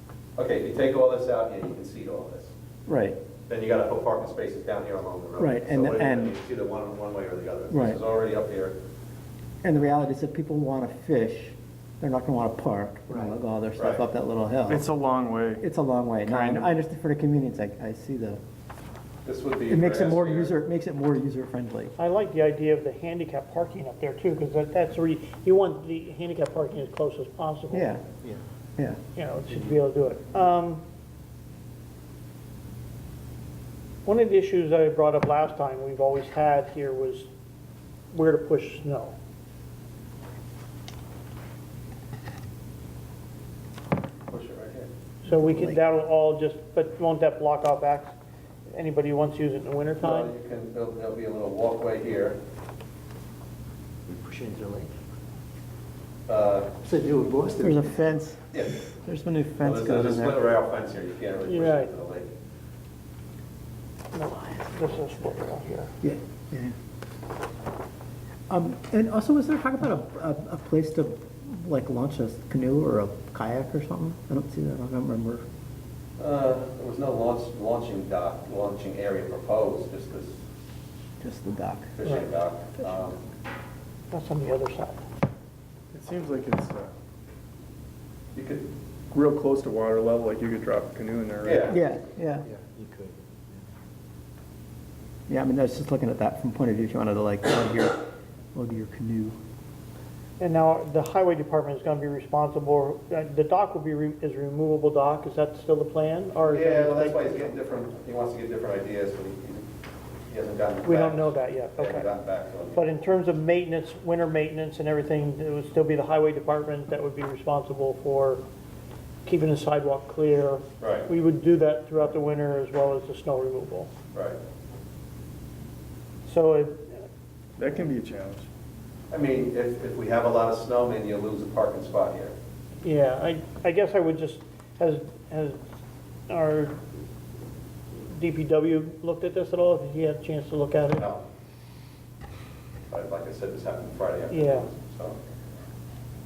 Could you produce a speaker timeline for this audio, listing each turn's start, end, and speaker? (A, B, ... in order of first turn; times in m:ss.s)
0:00.4-0:02.5 A
0:02.9-0:03.2 B
0:03.5-0:08.8 A
0:05.4-0:06.3 B
0:07.7-0:08.0 B
0:09.6-0:14.8 B
0:13.8-0:14.0 A
0:14.7-0:15.6 C
0:15.6-0:18.4 B
0:16.3-0:16.7 C
0:19.2-0:20.5 A
0:19.7-0:22.0 B
0:22.0-0:28.0 D
0:27.7-0:28.0 B
0:29.2-0:30.8 D
0:34.0-0:37.3 D
0:38.1-0:39.2 D
0:44.3-0:44.9 A
0:45.2-0:45.8 B
0:45.2-0:48.1 D
0:48.7-0:50.3 D
0:50.0-0:52.4 A
0:54.1-0:54.9 E
0:56.3-0:56.7 A
0:56.8-0:58.0 E
0:57.6-1:00.5 B
0:58.5-0:58.9 A
0:59.6-1:02.3 A
1:01.5-1:01.9 D
1:04.1-1:05.9 D
1:06.0-1:06.8 B
1:08.5-1:15.4 B
1:16.2-1:20.4 A
1:21.2-1:21.9 B
1:22.0-1:23.2 A
1:24.1-1:25.0 D
1:25.9-1:26.9 C
1:28.4-1:28.7 A
1:29.1-1:31.8 C
1:31.4-1:31.8 A
1:31.7-1:32.5 B
1:32.5-1:33.7 E
1:35.3-1:39.4 B
1:40.4-1:47.5 D
1:46.4-1:49.7 A
1:50.3-1:52.8 A
1:50.8-1:52.1 D
1:52.7-1:58.4 D
1:59.2-2:03.9 D
2:00.8-2:01.1 A
2:04.1-2:04.4 A
2:06.3-2:07.0 D
2:07.6-2:08.5 C
2:09.1-2:12.4 A
2:12.8-2:15.6 D
2:16.3-2:16.8 D
2:18.1-2:21.1 D
2:21.0-2:21.2 A
2:22.9-2:25.2 A
2:24.3-2:24.7 D